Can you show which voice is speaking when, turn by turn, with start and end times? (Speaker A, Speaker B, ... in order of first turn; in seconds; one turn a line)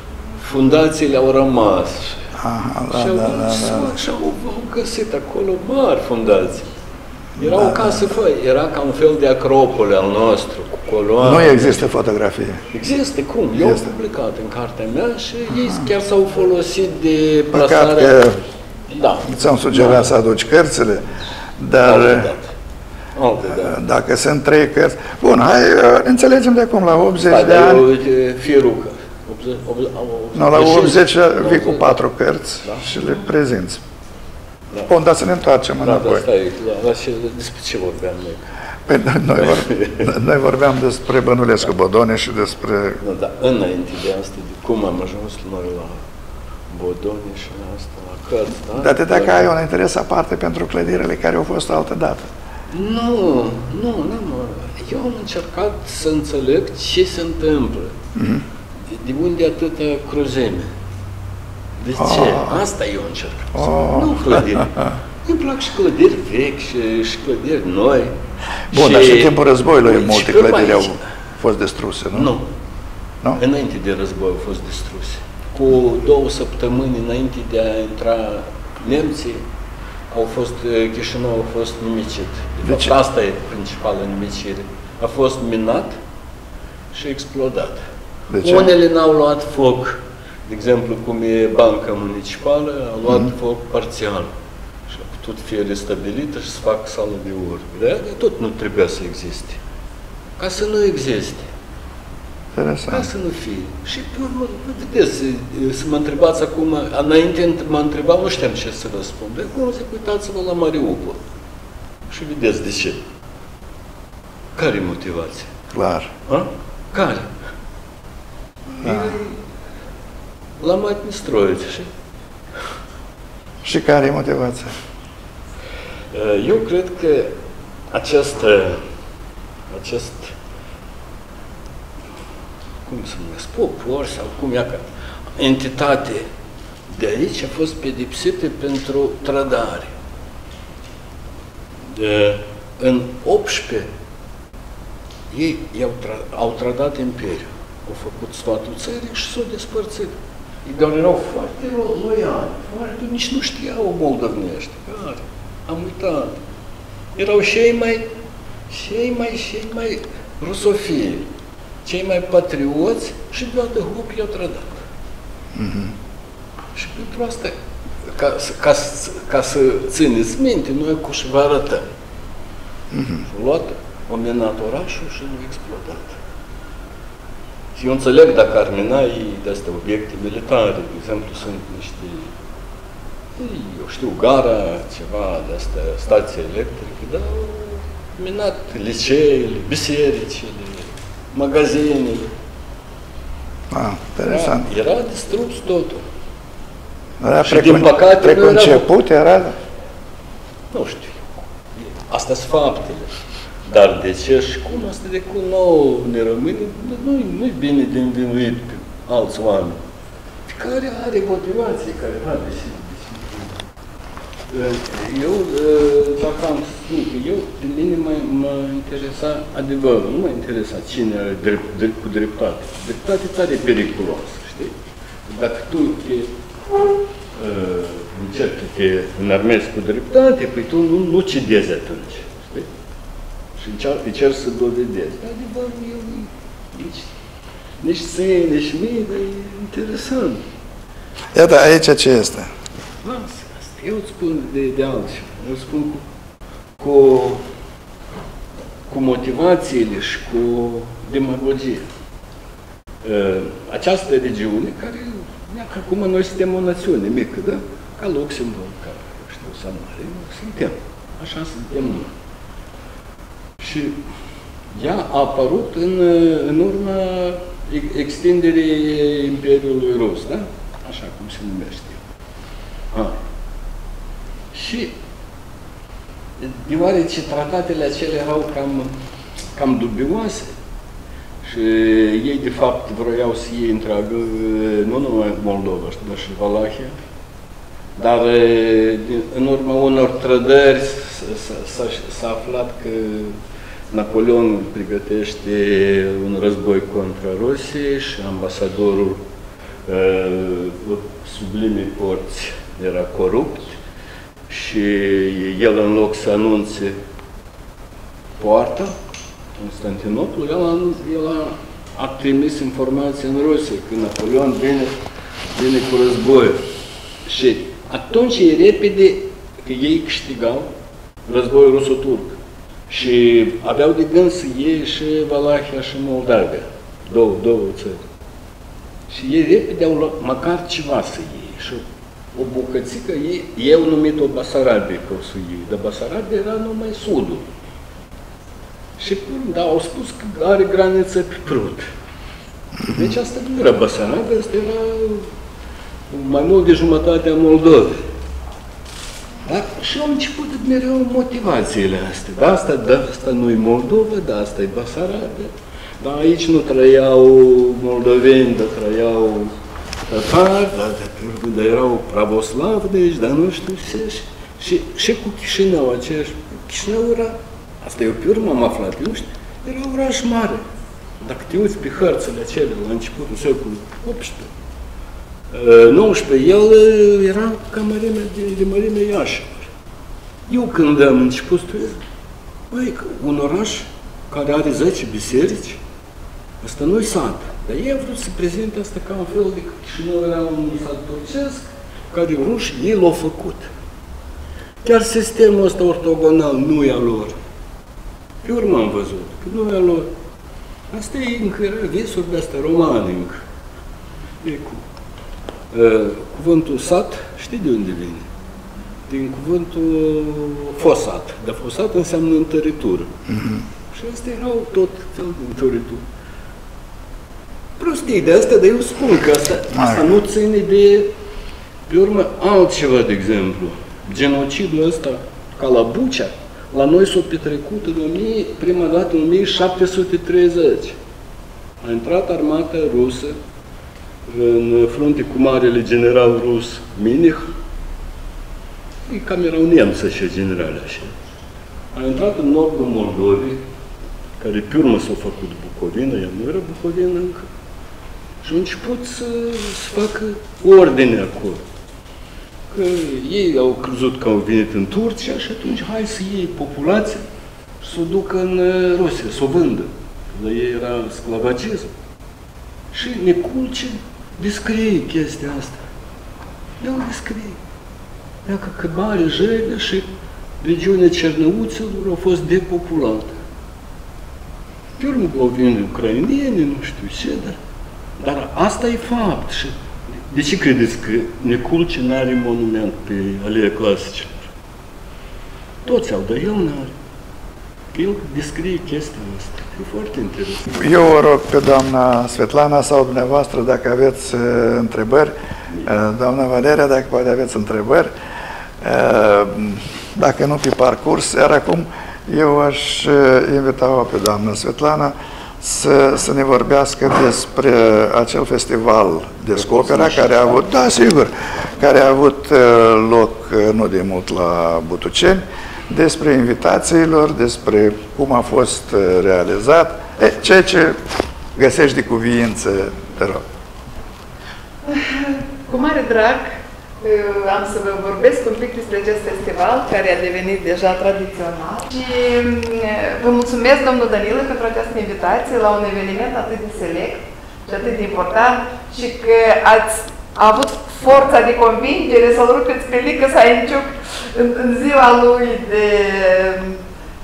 Speaker A: 0.4-2.2
Speaker B: 2.4-3.9
Speaker A: 2.9-6.7
Speaker B: 7.4-8.0
Speaker A: 7.4-11.8
Speaker B: 11.2-12.6
Speaker A: 12.7-18.2
Speaker B: 17.5-18.4
Speaker A: 18.9-20.1
Speaker B: 19.3-21.1
Speaker B: 21.6-22.3
Speaker A: 21.8-22.5
Speaker A: 23.1-23.8
Speaker B: 23.5-27.9
Speaker A: 27.2-32.0
Speaker B: 30.4-33.8
Speaker A: 32.6-32.9
Speaker B: 34.9-36.2
Speaker A: 35.8-38.5
Speaker B: 38.9-43.0
Speaker A: 39.4-40.1
Speaker A: 43.0-46.0
Speaker A: 46.7-49.5
Speaker B: 48.8-52.3
Speaker A: 52.7-58.0
Speaker B: 58.2-58.4
Speaker A: 58.9-60.7
Speaker A: 61.8-68.1
Speaker B: 62.0-62.5
Speaker B: 63.5-64.9
Speaker A: 68.7-71.0
Speaker B: 68.7-72.3
Speaker A: 72.1-72.5
Speaker A: 73.3-79.4
Speaker A: 80.1-86.0
Speaker B: 82.7-82.9
Speaker A: 86.9-87.8
Speaker B: 88.3-88.7
Speaker A: 88.4-94.3
Speaker A: 94.9-99.6
Speaker A: 100.4-101.5
Speaker B: 102.5-103.1
Speaker A: 102.9-111.2
Speaker A: 112.1-113.0
Speaker A: 114.6-115.5
Speaker B: 115.7-116.1
Speaker A: 116.3-117.3
Speaker A: 118.8-119.4
Speaker B: 118.8-119.1
Speaker A: 120.6-121.9
Speaker B: 123.6-124.7
Speaker A: 126.1-127.3
Speaker A: 127.9-128.8
Speaker A: 129.7-130.3
Speaker A: 132.9-136.3
Speaker A: 136.9-139.9
Speaker A: 141.9-143.9
Speaker A: 145.3-156.4
Speaker A: 157.2-158.1
Speaker A: 158.7-161.3
Speaker A: 161.8-164.8
Speaker B: 165.6-165.9
Speaker A: 166.8-167.6
Speaker A: 168.1-171.9
Speaker B: 172.9-173.2
Speaker A: 173.2-176.2
Speaker A: 177.8-182.3
Speaker A: 183.4-192.3
Speaker B: 193.7-194.7
Speaker A: 194.2-196.1
Speaker B: 197.2-199.6
Speaker A: 197.4-198.9
Speaker A: 200.7-203.1
Speaker A: 203.7-209.8
Speaker A: 210.5-213.6
Speaker A: 214.5-226.3
Speaker A: 227.3-232.7
Speaker A: 233.6-237.1
Speaker A: 237.8-240.4
Speaker B: 241.3-242.5
Speaker A: 243.0-246.0
Speaker A: 246.8-247.4
Speaker A: 248.9-251.8
Speaker A: 253.0-262.1
Speaker A: 263.6-264.0
Speaker A: 264.7-272.0
Speaker A: 272.9-273.2
Speaker A: 274.5-275.0
Speaker A: 276.4-278.9
Speaker A: 279.6-280.5
Speaker A: 281.4-286.9
Speaker A: 288.0-293.4
Speaker A: 293.9-299.2
Speaker A: 299.9-303.8
Speaker A: 304.5-307.0
Speaker A: 308.4-309.0
Speaker A: 309.6-314.9
Speaker A: 315.5-316.6
Speaker A: 317.2-320.7
Speaker A: 321.3-328.1
Speaker A: 329.1-331.8
Speaker A: 332.4-337.5
Speaker A: 339.0-341.9
Speaker A: 342.8-345.3
Speaker A: 346.1-348.0
Speaker A: 349.5-359.5
Speaker A: 360.1-370.6
Speaker A: 371.2-374.5
Speaker A: 375.5-379.7
Speaker A: 380.5-382.0
Speaker A: 382.7-385.8
Speaker A: 386.6-393.7
Speaker A: 394.8-397.3
Speaker A: 398.4-400.1
Speaker A: 400.9-403.4
Speaker A: 404.4-404.8
Speaker A: 405.7-408.3
Speaker A: 409.1-413.1
Speaker B: 413.3-413.6
Speaker A: 413.9-416.0
Speaker A: 417.8-421.1
Speaker B: 419.7-420.0
Speaker A: 421.9-431.0
Speaker A: 431.8-433.4
Speaker A: 434.3-437.5
Speaker A: 439.1-441.1
Speaker A: 441.9-443.6
Speaker A: 444.4-447.5
Speaker A: 448.4-451.6
Speaker A: 452.7-457.2
Speaker A: 457.8-461.9
Speaker A: 462.9-465.8
Speaker A: 466.8-467.6
Speaker A: 468.5-470.1
Speaker A: 470.6-473.3
Speaker A: 475.0-477.6
Speaker A: 478.2-479.8
Speaker A: 480.3-484.5
Speaker A: 485.9-486.9
Speaker A: 487.9-490.9
Speaker B: 490.7-495.3
Speaker B: 495.9-498.1
Speaker B: 498.8-521.0
Speaker A: 509.6-511.6
Speaker B: 521.5-523.4
Speaker C: 524.9-526.5
Speaker C: 527.0-546.8